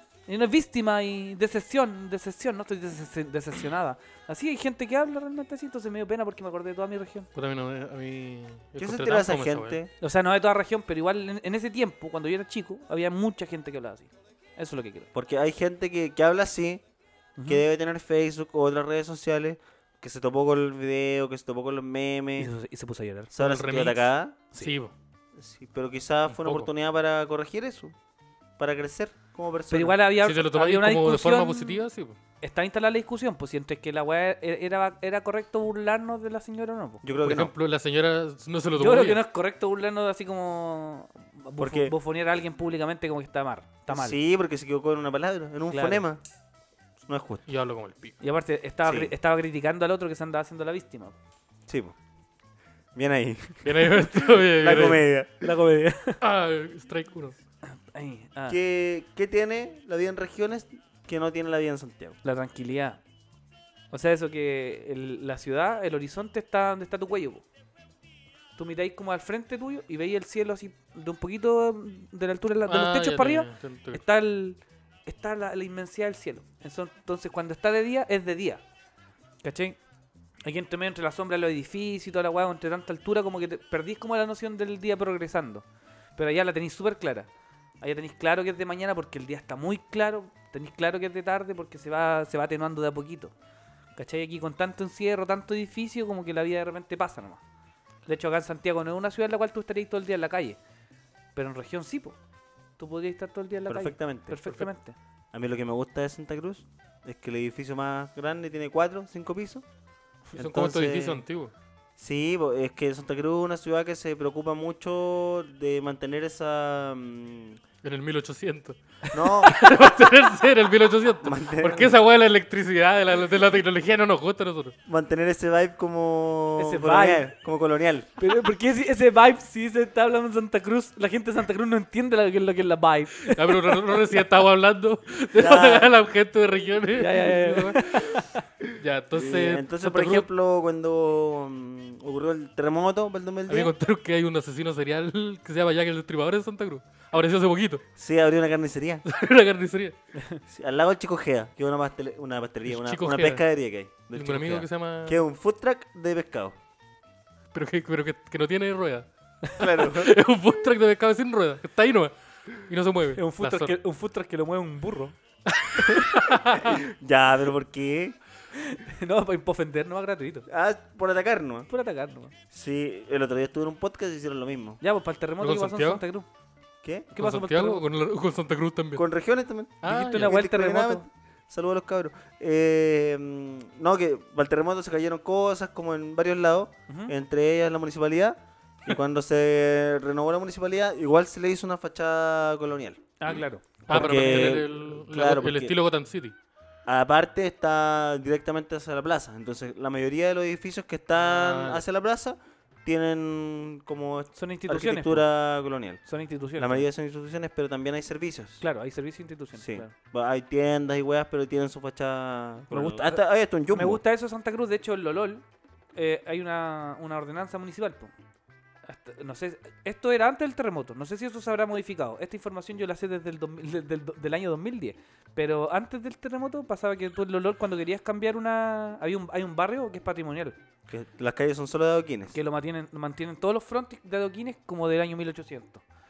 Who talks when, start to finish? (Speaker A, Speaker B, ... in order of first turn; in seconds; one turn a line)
Speaker A: 0.3-7.3
Speaker B: 7.3-9.8
Speaker C: 8.8-9.9
Speaker A: 10.0-15.1
Speaker C: 15.1-16.8
Speaker A: 17.4-17.6
Speaker C: 17.4-22.5
Speaker A: 22.4-23.3
Speaker C: 23.3-24.4
Speaker B: 23.4-24.9
Speaker C: 25.4-27.9
Speaker B: 26.3-26.7
Speaker C: 28.6-30.0
Speaker A: 29.7-31.8
Speaker B: 30.2-32.2
Speaker A: 32.4-37.0
Speaker C: 37.0-37.5
Speaker B: 37.2-39.2
Speaker A: 38.8-44.2
Speaker C: 41.6-41.9
Speaker C: 43.9-46.2
Speaker A: 45.7-46.0
Speaker C: 47.1-47.4
Speaker B: 47.5-48.2
Speaker A: 48.2-51.1
Speaker C: 48.8-49.1
Speaker C: 51.7-51.9
Speaker C: 52.9-55.5
Speaker B: 53.6-55.0
Speaker A: 55.4-56.2
Speaker B: 56.2-57.4
Speaker A: 57.7-58.6
Speaker C: 58.5-62.2
Speaker A: 62.2-63.0
Speaker A: 63.9-67.4
Speaker A: 68.6-78.6
Speaker B: 72.7-74.0
Speaker A: 79.4-79.8
Speaker A: 80.4-85.6
Speaker A: 86.2-87.3
Speaker A: 87.8-93.3
Speaker A: 94.0-97.4
Speaker A: 98.0-100.6
Speaker A: 101.3-102.2
Speaker A: 102.8-105.0
Speaker C: 103.7-104.4
Speaker C: 105.3-109.6
Speaker B: 110.3-111.5
Speaker C: 110.3-111.2
Speaker C: 112.0-117.6
Speaker B: 117.8-118.8
Speaker C: 119.1-119.6
Speaker B: 119.4-124.7
Speaker C: 121.2-122.0
Speaker C: 124.9-128.1
Speaker A: 126.6-127.3
Speaker A: 128.2-134.1
Speaker B: 133.3-140.3
Speaker C: 135.3-135.9
Speaker A: 136.9-138.4
Speaker C: 139.1-143.7
Speaker B: 143.5-147.8
Speaker C: 147.9-149.0
Speaker B: 149.1-149.9
Speaker C: 150.5-156.6
Speaker B: 152.7-153.4
Speaker B: 154.1-155.2
Speaker B: 157.5-159.1
Speaker C: 159.6-160.1
Speaker B: 159.6-163.8
Speaker A: 163.1-165.2
Speaker B: 165.5-166.8
Speaker A: 165.8-166.1
Speaker C: 166.7-168.2
Speaker A: 168.5-170.5
Speaker C: 170.5-171.7
Speaker A: 171.7-172.3
Speaker C: 172.5-174.8
Speaker A: 174.8-176.3
Speaker B: 175.4-176.0
Speaker C: 176.8-177.1
Speaker A: 177.1-177.8
Speaker B: 177.2-179.0
Speaker C: 178.9-193.0
Speaker B: 179.8-180.4
Speaker A: 179.8-181.1
Speaker A: 186.9-187.1
Speaker A: 193.2-194.5
Speaker B: 193.9-196.3
Speaker C: 193.9-195.8
Speaker C: 196.8-206.0
Speaker B: 201.2-201.8
Speaker A: 204.3-205.2
Speaker A: 206.1-206.9
Speaker C: 206.6-208.6
Speaker A: 208.6-209.9
Speaker C: 209.6-214.0
Speaker A: 212.7-218.1
Speaker A: 218.8-230.6
Speaker C: 230.9-232.4
Speaker A: 232.3-235.8